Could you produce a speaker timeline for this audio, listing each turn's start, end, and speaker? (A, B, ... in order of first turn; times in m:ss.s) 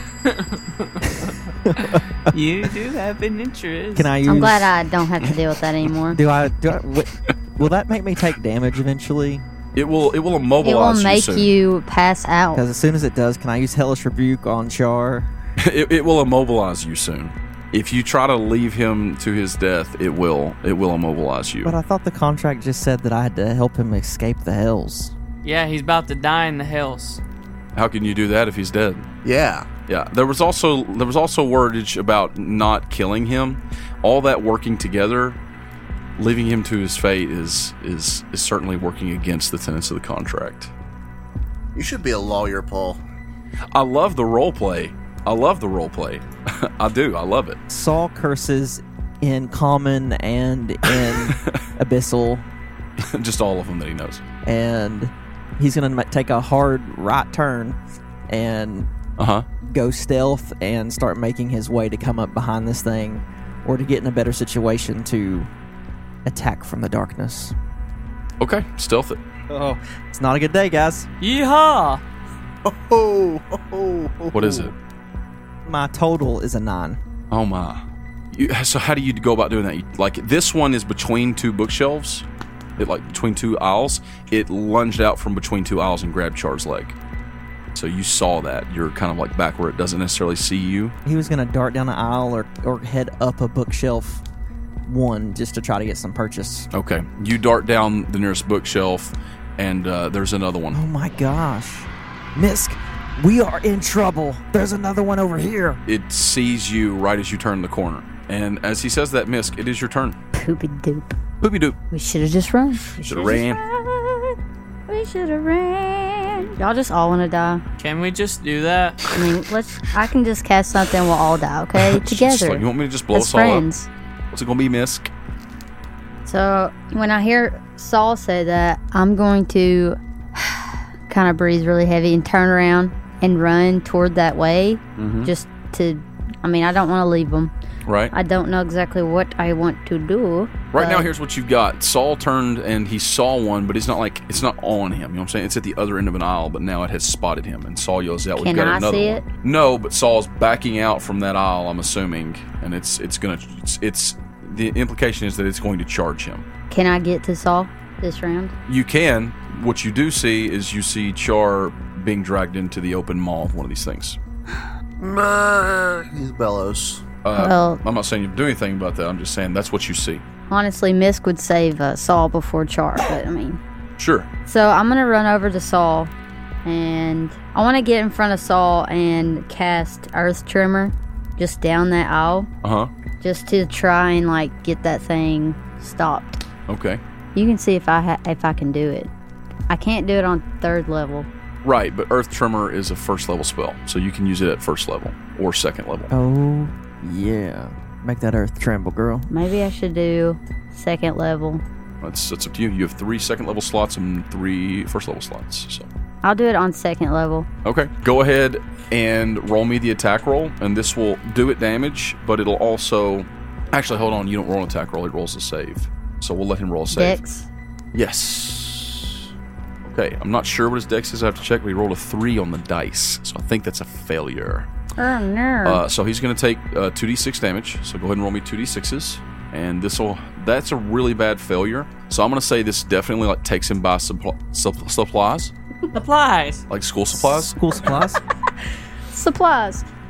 0:00.2-0:04.1 A
0:01.6-0:02.0 B
0:04.0-0:04.7 B
0:04.3-0:06.2 C
0:06.1-0:09.4 B
0:09.8-0:11.5 D
0:10.6-0:12.6 C
0:12.5-0:15.3 B
0:15.6-0:21.7 D
0:21.6-0:25.1 B
0:25.4-0:27.2 A
0:27.8-0:29.1 D
0:29.2-0:29.7 E
0:29.9-0:35.4 D
0:36.2-0:40.7 D
0:41.8-0:43.0 E
0:43.7-0:47.6 D
0:47.7-0:52.5 B
0:51.3-0:51.6 D
0:53.0-0:54.2 D
0:54.4-0:58.9 B
0:59.2-0:59.5 D
0:59.6-1:05.5 B
1:06.2-1:07.6 B
1:08.4-1:09.2 D
1:09.5-1:11.1 B
1:11.2-1:12.0 A
1:12.6-1:14.7 E
1:14.3-1:14.7 D
1:15.7-1:17.0 B
1:17.3-1:22.3 D
1:22.8-1:27.0 D
1:27.8-1:31.0 D
1:31.0-1:34.2 B
1:34.8-1:36.7 B
1:36.7-1:40.8 D
1:40.7-1:45.8 B
1:45.9-1:50.2 D
1:50.4-1:51.1 C
1:51.4-1:51.8 D
1:51.9-1:54.4 C
1:53.0-1:53.6 D
1:54.9-1:57.6 C
1:57.8-1:59.0 A
1:59.1-2:03.9 C
2:01.8-2:03.7 D
2:04.3-2:05.1 D
2:06.2-2:17.5 C
2:15.0-2:15.3 D
2:17.9-2:18.1 D
2:18.1-2:21.1 C
2:20.7-2:36.4 D
2:28.4-2:29.2 C
2:36.7-2:38.5 C
2:38.7-2:44.2 D
2:45.0-2:47.0 E
2:47.2-2:50.2 D
2:47.3-2:47.8 C
2:50.5-2:53.6 C
2:54.0-2:54.3 D
2:54.5-2:56.1 C
2:56.6-3:02.5 C
3:02.6-3:02.9 D
3:03.2-3:06.4 C
3:06.7-3:07.0 D
3:07.4-3:09.1 C
3:09.7-3:11.3 C
3:11.6-3:16.1 D
3:16.1-3:19.3 B
3:19.3-3:21.6 C
3:22.0-3:25.9 D
3:26.2-3:27.5 C
3:27.6-3:37.2 D
3:36.9-3:37.5 C
3:37.9-3:39.3 D
3:39.8-3:44.7 D
3:45.0-3:45.8 C
3:45.6-3:55.5 D
3:55.9-3:56.6 A
3:56.7-3:57.6 D
3:57.3-3:58.2 B
3:59.1-3:59.9 C